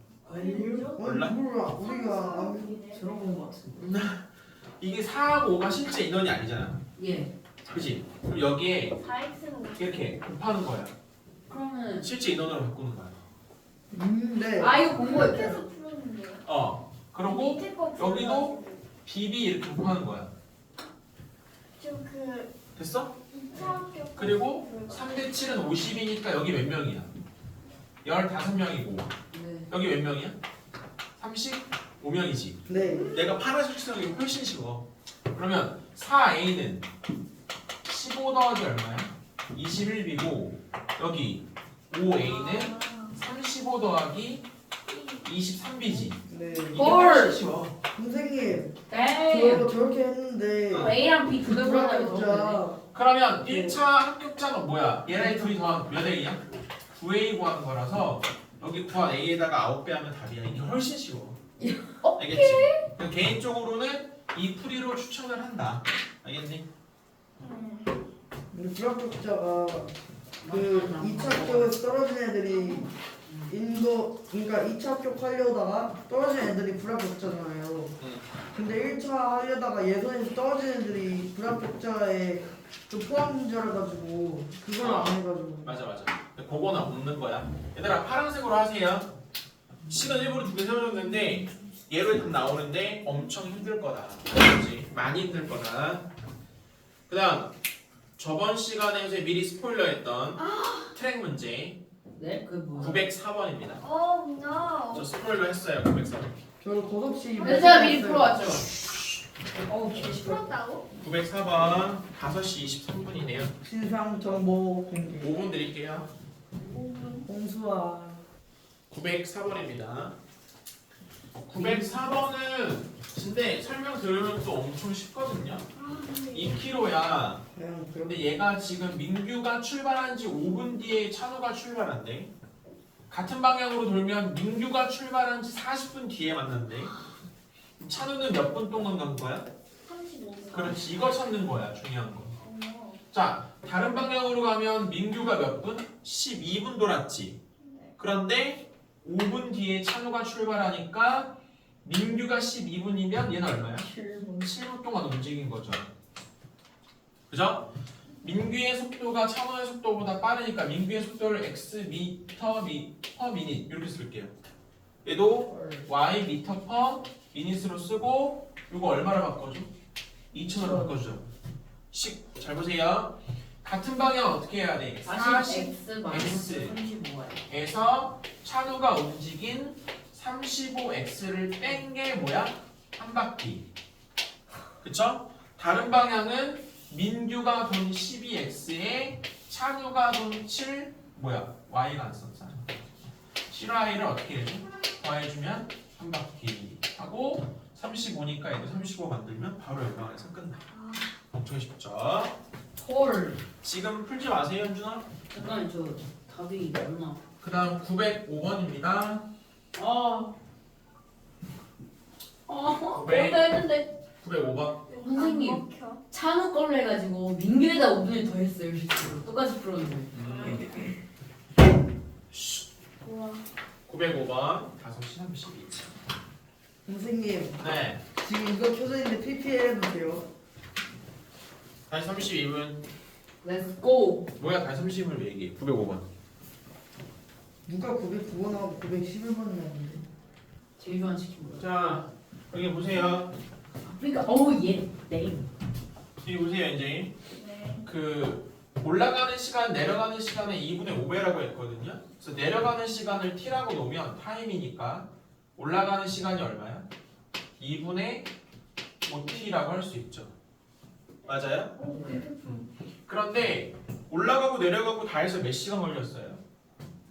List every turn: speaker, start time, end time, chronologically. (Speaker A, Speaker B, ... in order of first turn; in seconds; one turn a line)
Speaker A: 0.2-0.9
Speaker B: 0.2-3.5
Speaker C: 0.7-2.8
Speaker D: 1.0-1.4
Speaker A: 2.9-3.9
Speaker D: 3.8-4.3
Speaker D: 4.8-6.8
Speaker E: 7.0-7.3
Speaker D: 7.7-9.0
Speaker B: 9.0-10.1
Speaker D: 9.8-10.9
Speaker E: 11.5-12.1
Speaker D: 12.0-13.2
Speaker C: 13.9-14.8
Speaker E: 14.6-15.6
Speaker B: 14.9-16.5
Speaker D: 16.4-20.3
Speaker B: 17.2-18.9
Speaker B: 21.8-22.5
Speaker D: 22.8-23.1
Speaker B: 23.3-25.7
Speaker D: 24.1-27.1
Speaker D: 28.0-29.1
Speaker E: 29.3-29.7
Speaker D: 29.7-30.4
Speaker D: 31.2-36.9
Speaker C: 32.6-33.2
Speaker B: 32.9-33.2
Speaker D: 37.8-44.5
Speaker B: 42.0-43.2
Speaker B: 44.9-45.2
Speaker D: 45.2-47.8
Speaker C: 46.3-46.8
Speaker E: 46.7-47.4
Speaker C: 47.9-52.8
Speaker E: 48.9-49.7
Speaker D: 50.7-51.0
Speaker E: 50.7-52.6
Speaker D: 52.9-61.4
Speaker A: 61.6-62.1
Speaker E: 62.0-62.8
Speaker D: 62.1-66.7
Speaker B: 67.4-68.0
Speaker C: 68.5-69.9
Speaker E: 70.4-71.7
Speaker C: 70.4-72.9
Speaker E: 73.3-73.5
Speaker C: 73.5-78.0
Speaker D: 78.0-78.2
Speaker C: 78.5-85.7
Speaker D: 84.8-89.1
Speaker D: 89.9-96.1
Speaker D: 97.1-97.5
Speaker D: 98.2-101.8
Speaker B: 100.4-100.9
Speaker E: 102.2-103.1
Speaker D: 102.8-103.8
Speaker B: 103.8-105.1
Speaker D: 104.9-106.4
Speaker C: 106.6-108.6
Speaker B: 107.3-108.1
Speaker E: 107.4-108.7
Speaker A: 109.6-110.5
Speaker B: 110.0-110.9
Speaker D: 111.0-113.5
Speaker C: 113.6-115.5
Speaker D: 115.2-116.1
Speaker B: 116.6-117.3
Speaker C: 117.2-118.2
Speaker D: 118.9-120.1
Speaker D: 121.4-125.7
Speaker E: 121.6-121.9
Speaker B: 125.7-126.6
Speaker D: 126.3-127.4
Speaker C: 127.5-128.2
Speaker D: 128.1-132.3
Speaker D: 133.1-136.9
Speaker D: 137.8-139.5
Speaker B: 139.8-140.9
Speaker D: 140.5-142.4
Speaker B: 142.4-143.0
Speaker D: 143.1-147.4
Speaker B: 147.6-148.0
Speaker D: 148.0-155.9
Speaker A: 153.9-154.5
Speaker D: 157.3-157.7
Speaker D: 158.2-164.3
Speaker D: 165.0-169.7
Speaker A: 165.5-165.9
Speaker A: 170.3-171.0
Speaker D: 170.3-171.3
Speaker D: 171.9-176.8
Speaker E: 175.1-177.4
Speaker D: 177.5-183.7
Speaker D: 184.8-192.8
Speaker D: 193.5-200.6
Speaker B: 200.7-201.1
Speaker D: 201.3-202.4
Speaker A: 202.8-203.4
Speaker E: 202.8-203.4
Speaker D: 203.6-205.1
Speaker E: 205.3-207.2
Speaker D: 207.4-209.2
Speaker E: 209.7-210.3
Speaker E: 212.5-213.9
Speaker D: 212.9-213.5
Speaker D: 214.2-214.8
Speaker B: 214.9-216.0
Speaker E: 215.0-220.6
Speaker D: 220.1-220.7
Speaker B: 220.2-220.9
Speaker D: 222.3-222.6
Speaker B: 223.0-223.4
Speaker D: 223.9-225.9
Speaker C: 226.9-230.2
Speaker D: 227.6-228.0
Speaker D: 231.9-232.8
Speaker E: 233.4-234.3
Speaker D: 234.4-236.1
Speaker C: 237.7-240.1
Speaker E: 240.8-242.1
Speaker D: 241.6-243.3
Speaker E: 243.8-245.5
Speaker D: 246.2-247.1
Speaker B: 247.3-247.9
Speaker D: 247.8-256.9
Speaker D: 257.6-258.3
Speaker D: 259.0-260.3
Speaker B: 259.2-259.5
Speaker B: 261.2-262.6
Speaker D: 261.2-261.7
Speaker A: 261.9-262.2
Speaker D: 262.4-266.4